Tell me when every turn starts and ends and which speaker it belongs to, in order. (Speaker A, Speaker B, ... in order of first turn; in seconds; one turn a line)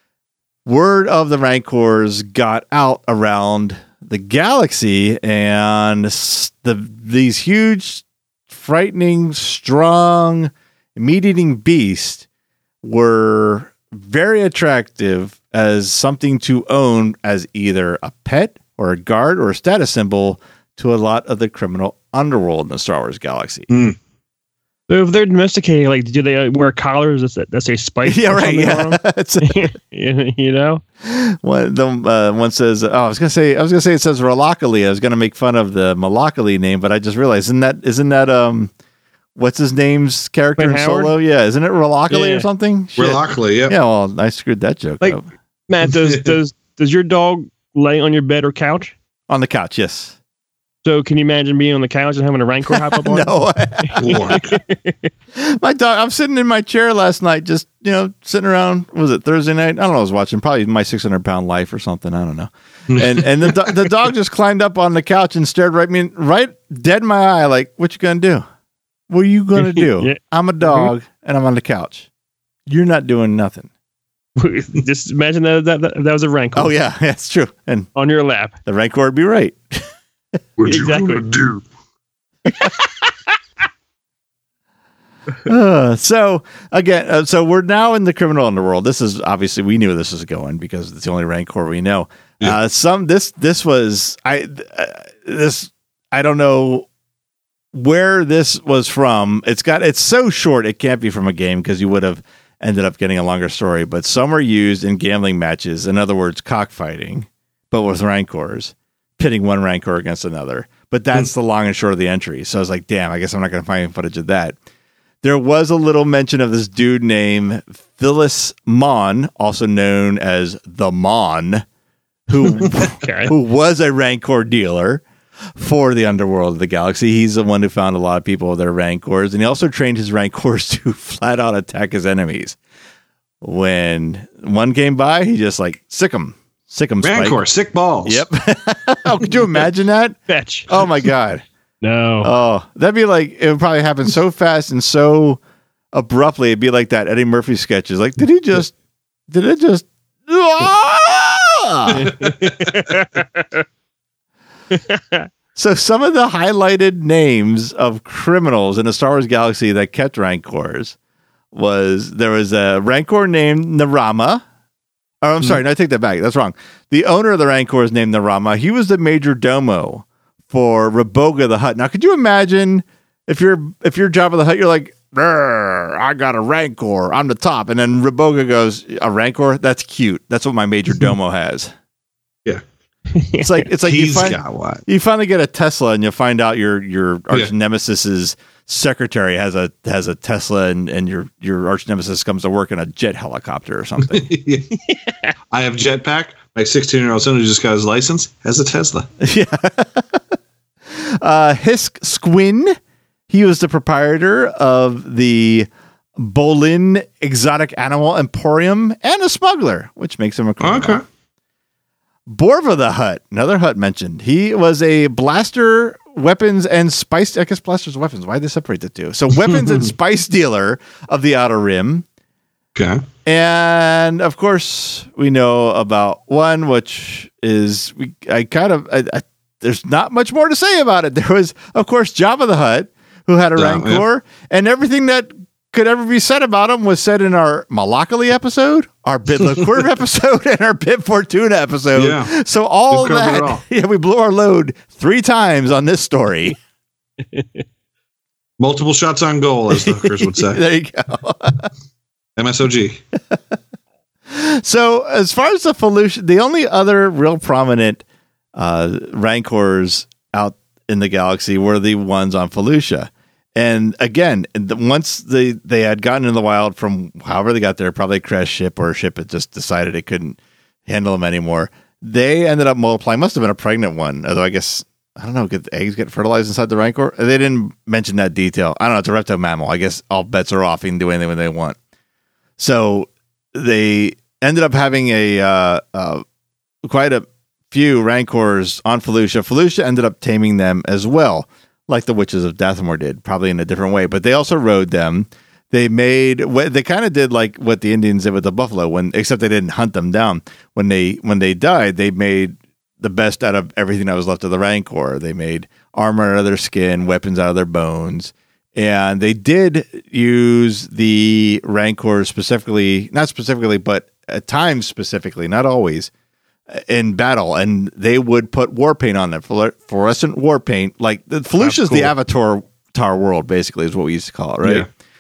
Speaker A: 0.7-12.2
Speaker A: 12.8-23.7
Speaker B: 23.7-24.0
Speaker C: 24.9-30.8
Speaker A: 28.1-29.6
Speaker A: 31.0-38.7
Speaker A: 39.4-45.3
Speaker C: 40.6-41.1
Speaker C: 42.1-42.5
Speaker B: 43.0-43.8
Speaker C: 45.7-48.9
Speaker B: 45.8-46.3
Speaker A: 49.3-50.2
Speaker C: 50.8-55.1
Speaker A: 52.9-54.4
Speaker B: 54.0-54.6
Speaker A: 55.4-68.5
Speaker B: 62.9-63.7
Speaker A: 69.1-72.1
Speaker C: 69.6-70.9
Speaker A: 72.7-73.7
Speaker C: 74.4-76.7
Speaker A: 76.5-77.9
Speaker C: 78.0-78.5
Speaker A: 78.7-79.9
Speaker B: 80.6-81.6
Speaker C: 80.7-81.4
Speaker A: 85.5-96.9
Speaker A: 97.7-114.6
Speaker A: 115.2-121.6
Speaker A: 122.3-125.0
Speaker C: 122.9-123.3
Speaker A: 125.6-132.6
Speaker A: 133.4-137.4
Speaker B: 137.0-138.3
Speaker A: 138.1-140.2
Speaker C: 140.3-140.7
Speaker A: 140.7-141.4
Speaker C: 141.8-142.3
Speaker A: 142.2-145.4
Speaker A: 145.9-148.7
Speaker A: 149.3-152.1
Speaker C: 152.0-153.6
Speaker B: 152.0-153.1
Speaker C: 154.7-155.3
Speaker A: 155.6-161.0
Speaker A: 161.5-164.4
Speaker A: 165.2-181.7
Speaker C: 183.2-183.7
Speaker A: 183.4-194.3
Speaker B: 183.9-184.8
Speaker B: 194.1-194.8
Speaker B: 195.5-199.1
Speaker A: 199.2-200.2
Speaker A: 200.9-202.8
Speaker A: 203.3-211.0
Speaker B: 210.6-211.0
Speaker A: 212.3-222.1
Speaker B: 219.4-219.9
Speaker B: 222.8-223.1
Speaker A: 223.2-246.6
Speaker B: 233.6-234.0
Speaker B: 241.9-242.3
Speaker B: 242.9-243.6
Speaker C: 247.3-247.6
Speaker B: 248.6-250.6
Speaker A: 249.8-251.7
Speaker B: 252.4-253.0
Speaker A: 254.3-258.0
Speaker A: 258.6-281.8
Speaker A: 282.6-286.2
Speaker A: 286.8-316.1
Speaker A: 316.7-324.9
Speaker C: 321.6-322.1